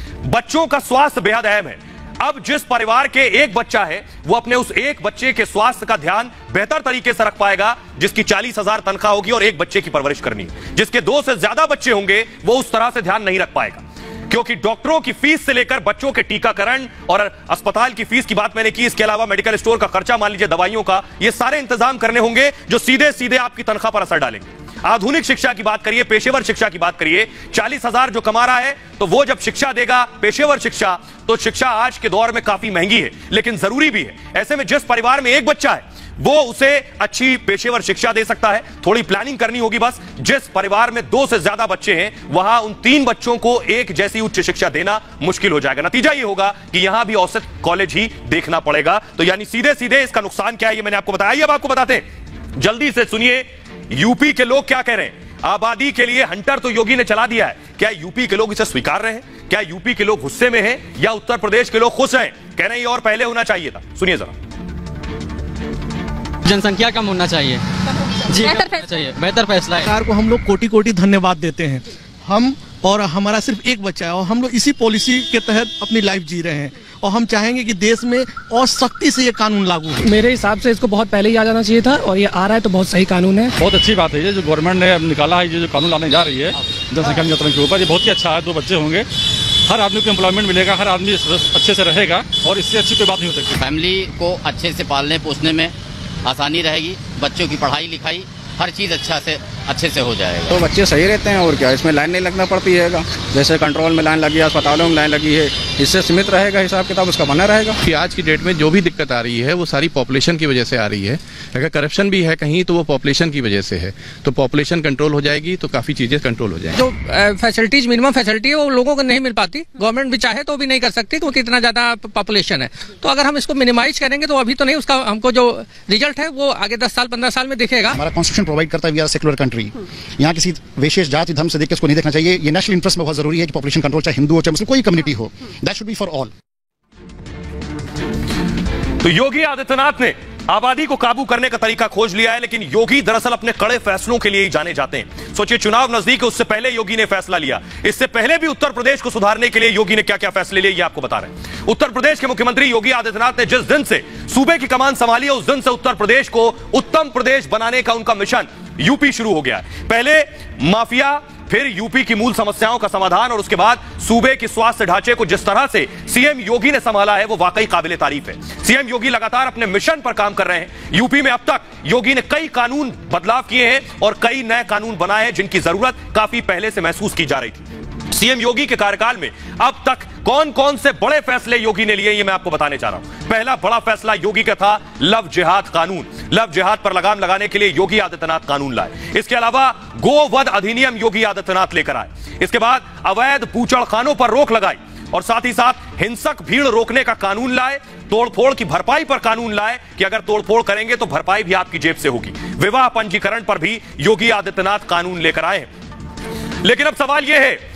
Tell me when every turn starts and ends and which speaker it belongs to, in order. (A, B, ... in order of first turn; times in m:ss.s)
0:00.2-0:52.0 A
0:52.6-1:04.3 A
1:06.4-1:07.6 B
1:08.3-1:09.9 B
1:09.9-1:11.8 C
1:12.3-1:20.0 C
1:20.0-1:23.5 D
1:23.6-1:29.0 E
1:29.7-1:33.7 E
1:33.6-1:35.7 F
1:36.2-1:40.6 F
1:40.4-1:47.8 G
1:47.8-1:56.8 H
1:56.8-2:08.0 D
2:07.9-2:16.3 I
2:19.0-3:25.7 A
3:26.6-3:27.6 A